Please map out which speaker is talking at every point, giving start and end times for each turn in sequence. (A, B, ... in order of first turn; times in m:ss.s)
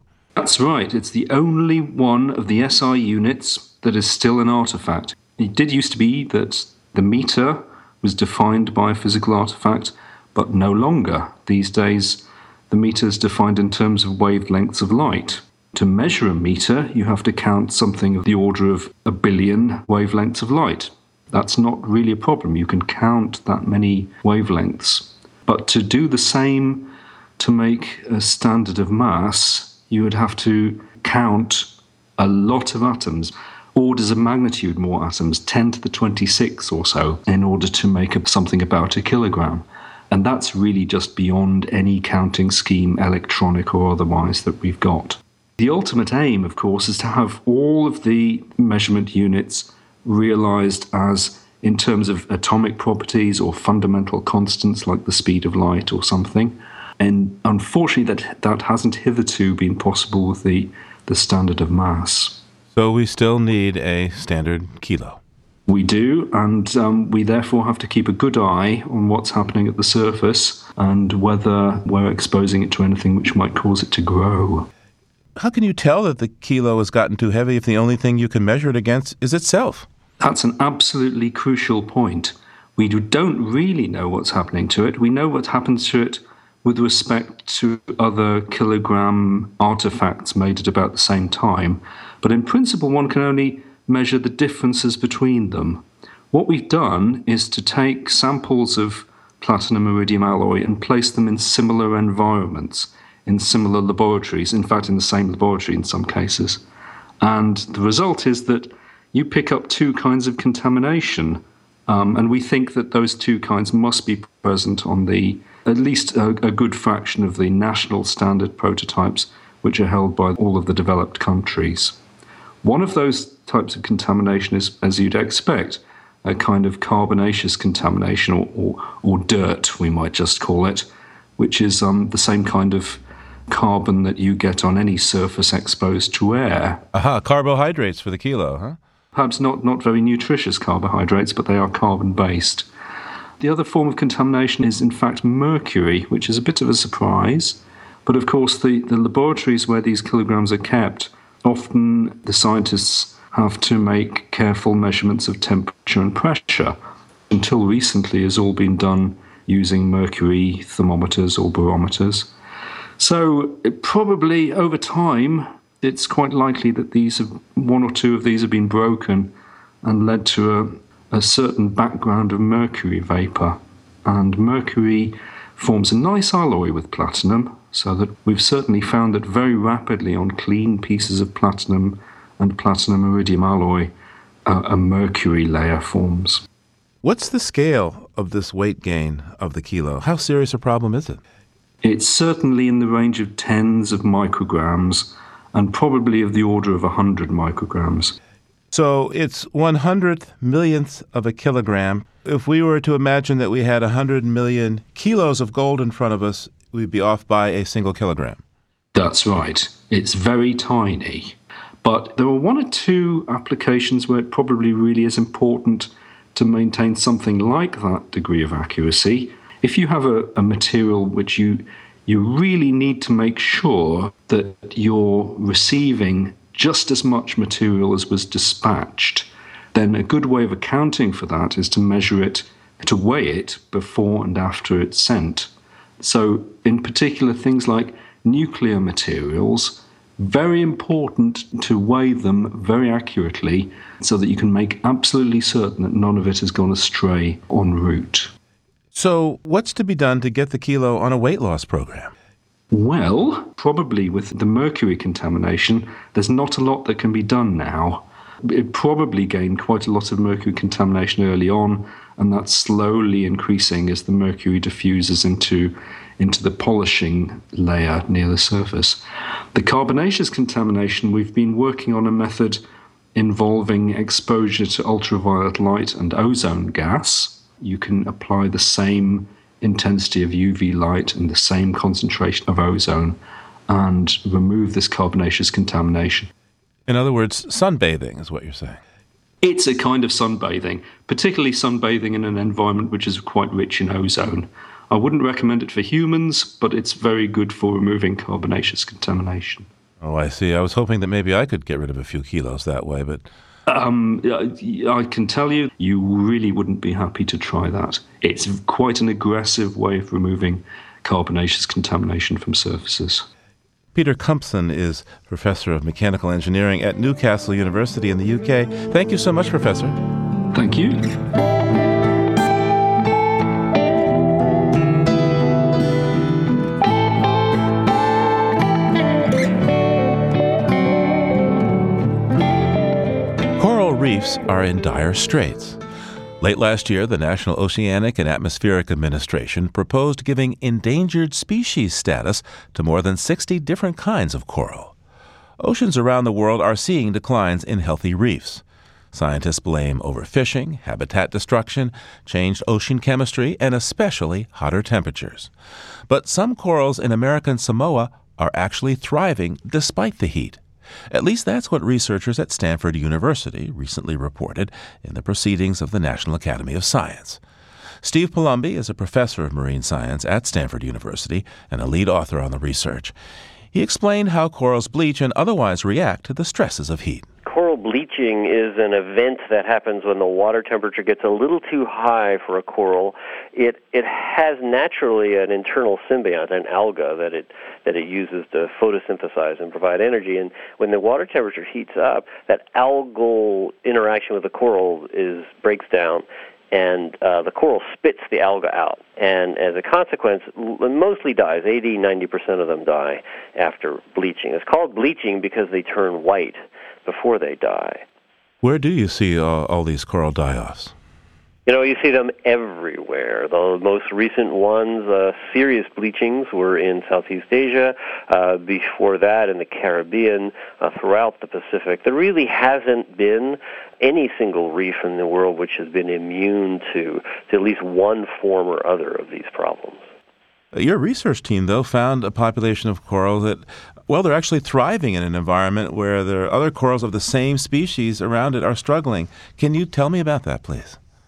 0:00.4-1:02.4 A
1:02.7-1:05.2 B
1:05.7-1:14.7 A
1:15.4-1:19.9 B
1:20.2-1:46.6 A
1:47.2-2:02.0 A
2:02.6-2:16.8 A
2:16.9-2:18.8 B
2:19.1-2:22.7 A
2:23.4-2:36.8 A
2:37.3-2:42.3 A
2:43.0-2:49.3 A
2:49.8-3:03.9 A
3:04.4-3:06.4 A
3:07.0-3:11.2 B
3:11.8-3:18.2 A
3:18.7-3:28.4 B
3:28.9-4:08.3 A
4:08.9-4:12.1 B
4:12.7-4:29.0 A
4:29.5-4:32.6 A
4:33.1-4:46.3 A
4:46.9-4:48.8 B
4:49.4-4:59.7 A
5:00.0-5:03.3 B
5:03.7-5:13.3 A
5:13.9-5:20.0 B
5:20.5-5:21.1 A
5:33.6-5:35.8 B
5:36.4-5:44.9 B
5:45.6-5:55.5 B
5:56.1-6:00.6 B
6:01.1-6:07.4 B
6:08.0-6:13.1 B
6:13.7-6:17.3 B
6:17.4-6:48.0 C
6:48.6-6:50.9 B
6:51.7-7:10.0 C
7:10.7-7:21.0 B